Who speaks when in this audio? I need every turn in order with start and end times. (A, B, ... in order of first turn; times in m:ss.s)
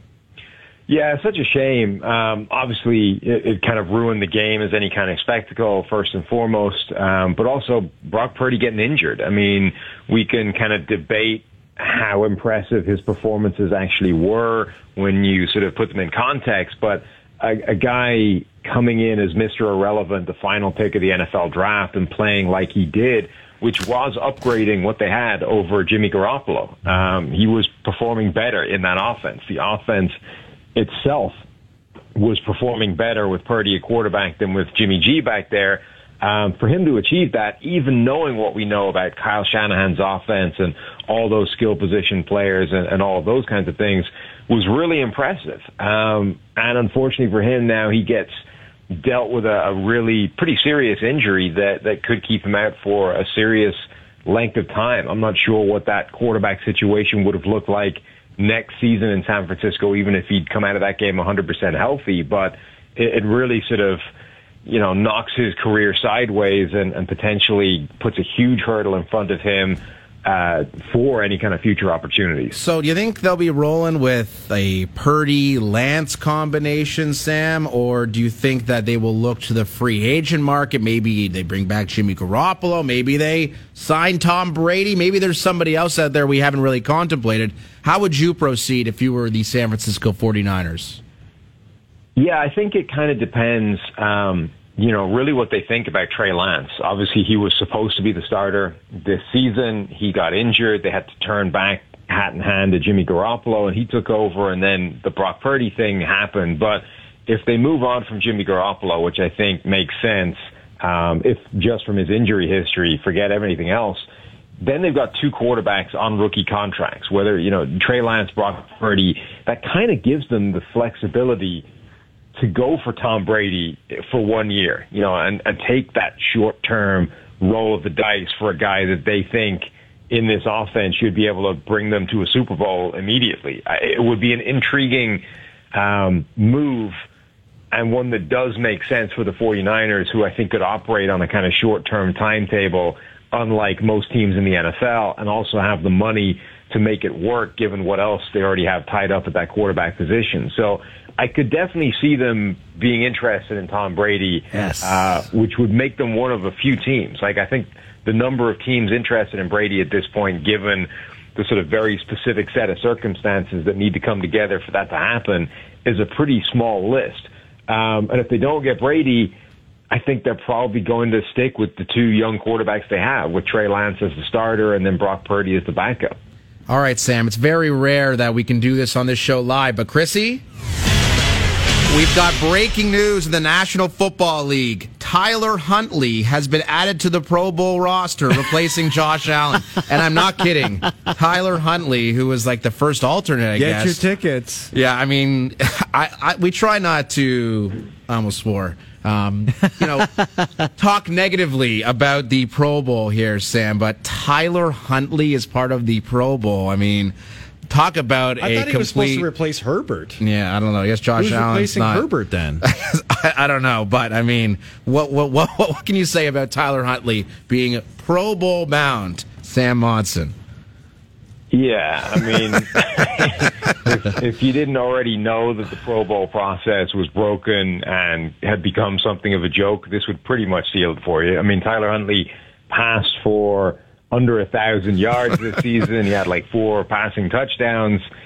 0:00.9-0:30.2 A
0:30.8-0:31.4 A
0:32.2-0:48.3 A
0:49.0-1:04.0 A
1:04.7-1:12.6 A
1:12.5-1:31.0 B
1:32.2-1:54.0 A
1:54.6-2:01.6 A
2:02.4-2:15.2 A
2:15.7-2:17.0 A
2:17.7-2:49.3 A
2:34.6-2:34.8 C
2:49.9-2:56.2 A
2:56.7-3:00.4 B
3:01.9-3:14.0 B
3:13.6-3:14.7 C
3:14.7-3:20.1 B
3:20.8-3:27.2 B
3:27.7-3:29.3 B
3:28.4-3:30.2 C
3:30.2-3:32.1 B
3:31.2-3:32.6 C
3:32.6-3:40.3 B
3:41.5-3:58.0 A